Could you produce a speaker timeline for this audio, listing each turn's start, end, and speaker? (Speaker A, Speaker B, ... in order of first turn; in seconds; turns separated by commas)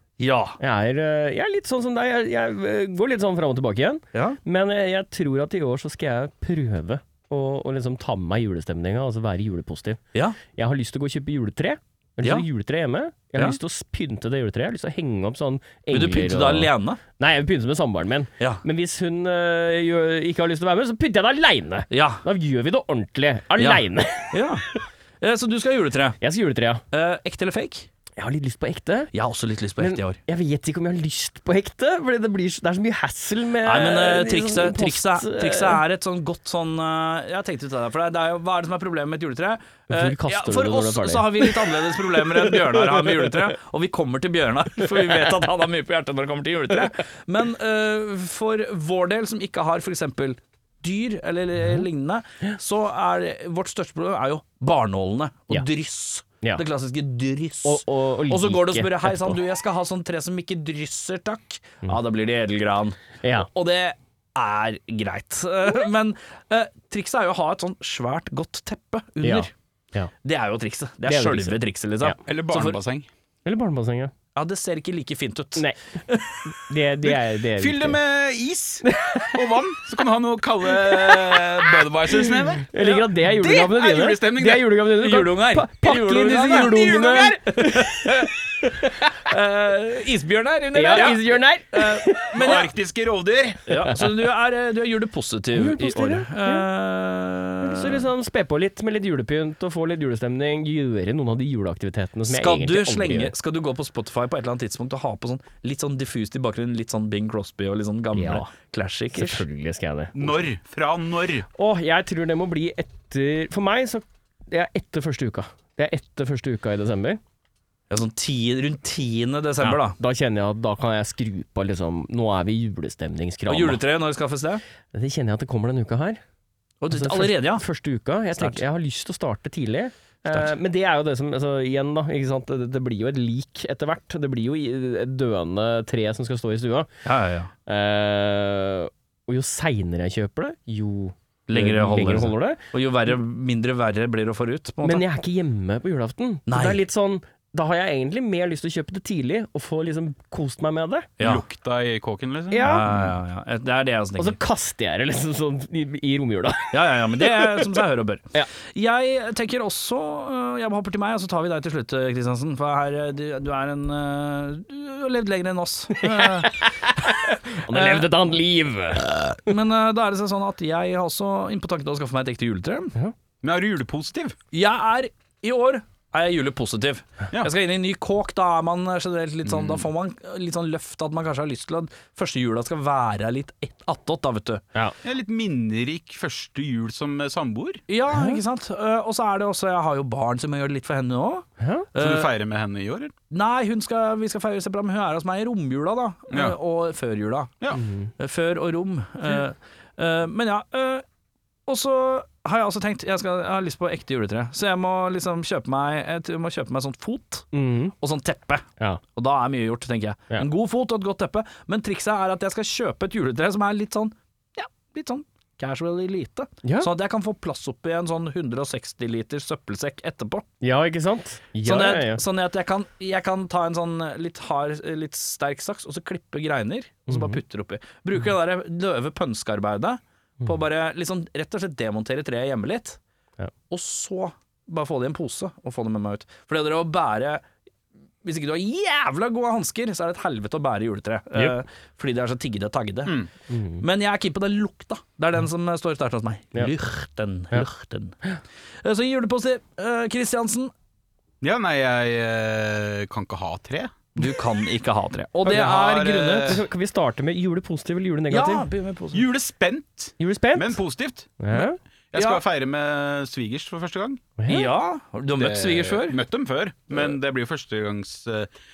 Speaker A: 0.2-0.6, Speaker B: 0.6-24.9, Speaker A: 4.1-4.4, Speaker A: 15.9-17.0, Speaker A: 21.9-22.2, Speaker A: 23.6-24.6, Speaker A: 25.2-26.2, Speaker B: 26.2-26.8, Speaker A: 26.9-27.9, Speaker B: 28.2-29.1, Speaker A: 29.1-30.2, Speaker B: 29.8-35.8, Speaker A: 33.6-69.5, Speaker B: 39.9-43.5, Speaker B: 57.6-59.4, Speaker B: 63.2-63.5, Speaker B: 69.2-70.1, Speaker A: 70.2-72.8, Speaker B: 71.0-72.2, Speaker C: 72.2-73.1, Speaker B: 73.4-74.1, Speaker A: 74.3-76.5, Speaker B: 76.5-78.0, Speaker C: 77.0-82.7, Speaker B: 78.8-79.4, Speaker B: 80.8-81.4, Speaker B: 82.3-89.1, Speaker A: 82.7-83.1, Speaker C: 83.3-84.7, Speaker A: 85.0-92.7, Speaker C: 86.4-87.4, Speaker B: 90.7-92.6, Speaker C: 92.4-93.9, Speaker A: 93.7-98.1, Speaker B: 95.5-96.7, Speaker B: 97.6-103.3, Speaker A: 102.3-109.5, Speaker B: 108.1-108.4, Speaker B: 109.1-110.4, Speaker C: 110.1-111.5, Speaker B: 111.5-117.2, Speaker A: 117.9-120.0, Speaker B: 119.9-123.8, Speaker A: 123.5-124.6, Speaker B: 124.9-126.2, Speaker A: 126.8-127.6, Speaker B: 126.9-136.9, Speaker A: 137.1-137.5, Speaker B: 137.7-142.6, Speaker A: 141.5-145.0, Speaker B: 144.8-151.1, Speaker A: 146.5-146.8, Speaker A: 151.2-151.4, Speaker C: 151.2-153.1, Speaker B: 152.5-152.9, Speaker A: 152.6-154.4, Speaker B: 154.2-157.8, Speaker A: 156.7-166.7, Speaker B: 166.0-169.5, Speaker A: 167.7-168.1, Speaker A: 169.5-173.0, Speaker C: 173.4-174.4, Speaker A: 174.5-184.6, Speaker C: 179.4-179.9, Speaker C: 185.0-187.8, Speaker A: 187.9-192.3, Speaker B: 188.1-188.4, Speaker B: 191.6-191.9, Speaker C: 192.0-193.1, Speaker A: 193.3-197.5, Speaker C: 196.3-196.6, Speaker B: 197.7-198.1, Speaker A: 198.2-201.1, Speaker A: 201.7-220.5, Speaker B: 207.5-207.9, Speaker B: 216.6-216.9, Speaker B: 220.6-222.2, Speaker A: 221.6-233.0, Speaker B: 227.1-227.4, Speaker A: 233.7-237.4, Speaker A: 238.2-243.2, Speaker B: 243.5-243.8, Speaker A: 243.8-248.2, Speaker A: 248.8-250.7, Speaker C: 251.4-253.9, Speaker A: 254.2-256.6, Speaker C: 255.4-256.6, Speaker B: 256.4-258.7, Speaker A: 258.3-259.3, Speaker C: 259.1-264.2, Speaker B: 260.2-260.8, Speaker B: 261.4-261.8, Speaker A: 262.1-262.4, Speaker B: 264.4-264.7, Speaker A: 264.5-266.2, Speaker C: 265.4-268.5